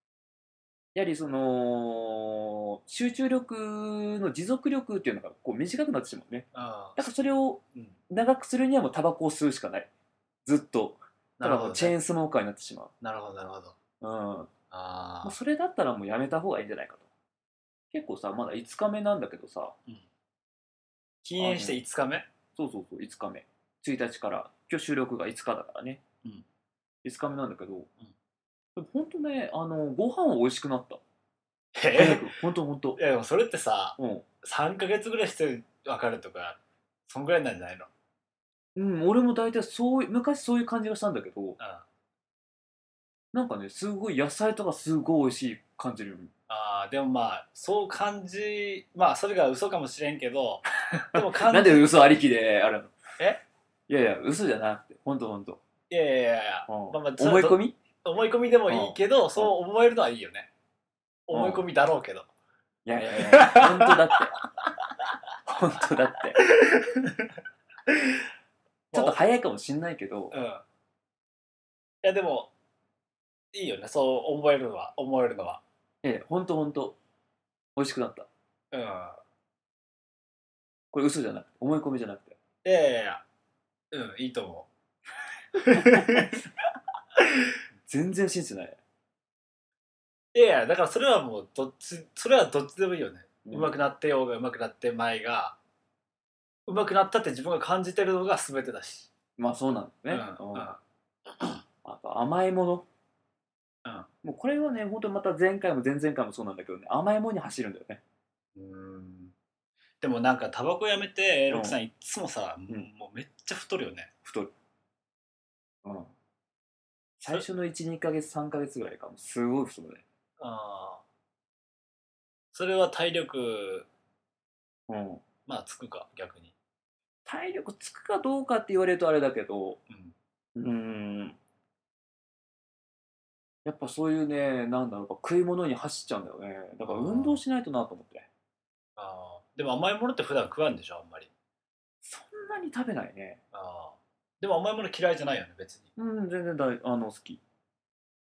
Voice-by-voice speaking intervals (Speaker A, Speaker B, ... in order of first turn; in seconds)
Speaker A: 0.9-9.9, 10.4-12.9, 14.0-14.5, 15.2-17.1, 17.9-19.8, 21.4-21.8, 22.6-26.0, 27.0-27.9, 28.8-31.0, 31.9-33.0, 34.0-34.2, 38.8-41.6, 43.3-46.3, 51.0-53.0, 53.9-55.6, 56.7-57.8, 58.7-59.5, 61.3-61.7, 62.9-64.4, 65.5-66.5, 68.9-70.4, 76.0-77.0, 77.8-78.3, 80.9-82.4, 85.8-86.2, 87.9-88.8, 93.5-93.7, 99.4-100.8, 101.8-102.9, 104.2-108.0, 111.5-111.8, 114.2-114.5, 115.8-116.1, 117.2-120.0, 124.9-125.2, 127.3-129.8, 130.6-131.4, 133.7-138.3, 142.0-143.4, 146.0-147.4
Speaker B: 6.5-7.1, 11.4-12.0, 13.0-13.8, 14.7-15.4, 21.2-22.3, 31.7-32.4, 33.0-37.9, 41.6-41.9, 46.5-52.0, 55.9-60.5, 61.3-62.3, 63.0-64.5, 66.3-68.3, 68.9-69.2, 70.3-70.6, 72.0-72.5, 73.5-75.6, 78.7-79.2, 82.6-83.2, 83.9-84.7, 85.5-86.4, 87.2-87.5, 90.3-95.6, 96.7-99.1, 100.1-100.8, 108.5-109.3, 110.0-114.1, 120.4-121.0, 122.5-123.9, 125.5-126.5, 129.9-130.2, 136.8-137.4, 139.0-141.3, 143.5-145.9